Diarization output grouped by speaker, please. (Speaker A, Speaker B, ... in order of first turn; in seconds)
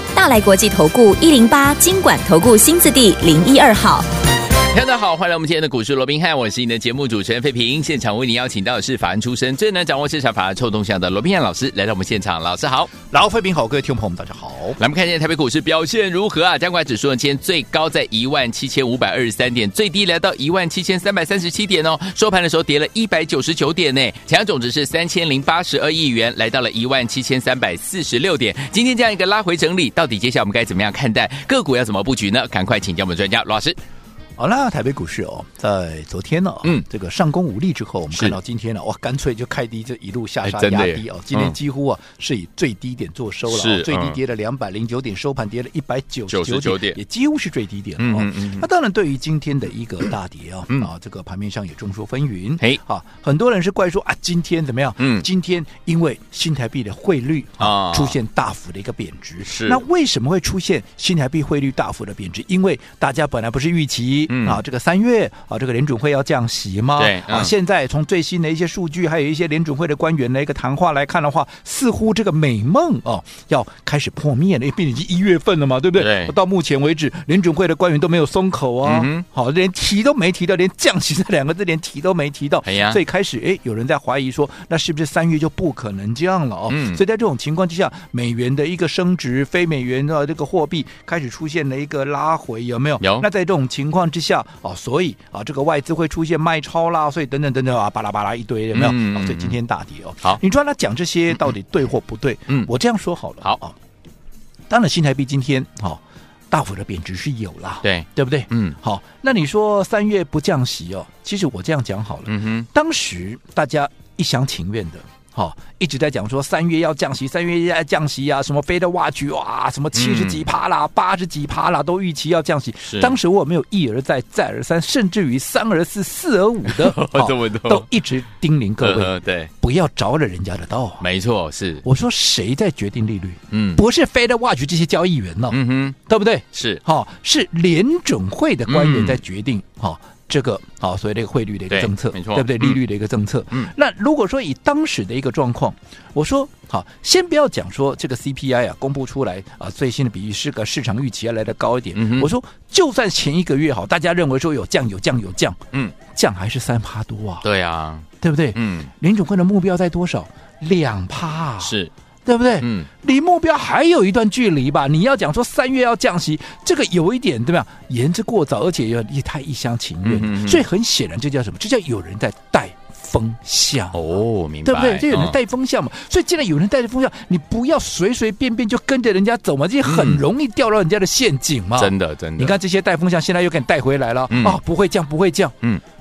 Speaker A: 0.1-4.0
Speaker B: 4.7-12.9, 14.8-33.8, 40.4-41.5, 43.5-44.2, 46.3-47.0, 48.0-48.6, 55.0-55.2, 57.6-58.1, 59.4-59.8, 64.3-64.6, 67.0-67.5, 76.0-76.3, 78.8-79.2, 82.6-83.0, 86.7-87.0, 93.0-93.2, 98.7-99.5, 107.8-108.8, 112.3-112.7, 119.9-120.5, 122.8-123.2, 126.6-127.9, 128.8-129.5, 131.0-131.8, 133.5-133.8, 135.5-136.0, 136.5-136.8, 138.7-139.2, 141.7-142.8, 151.9-152.3, 157.4-158.9, 161.6-161.9, 162.6-162.9, 170.0-170.6, 173.9-175.4, 179.8-180.2, 181.8-182.6, 184.3-184.6
Speaker C: 13.1-14.8, 34.4-103.7, 104.7-106.0, 106.5-131.0, 131.8-157.4, 158.2-161.7, 162.2-174.0, 174.6-185.5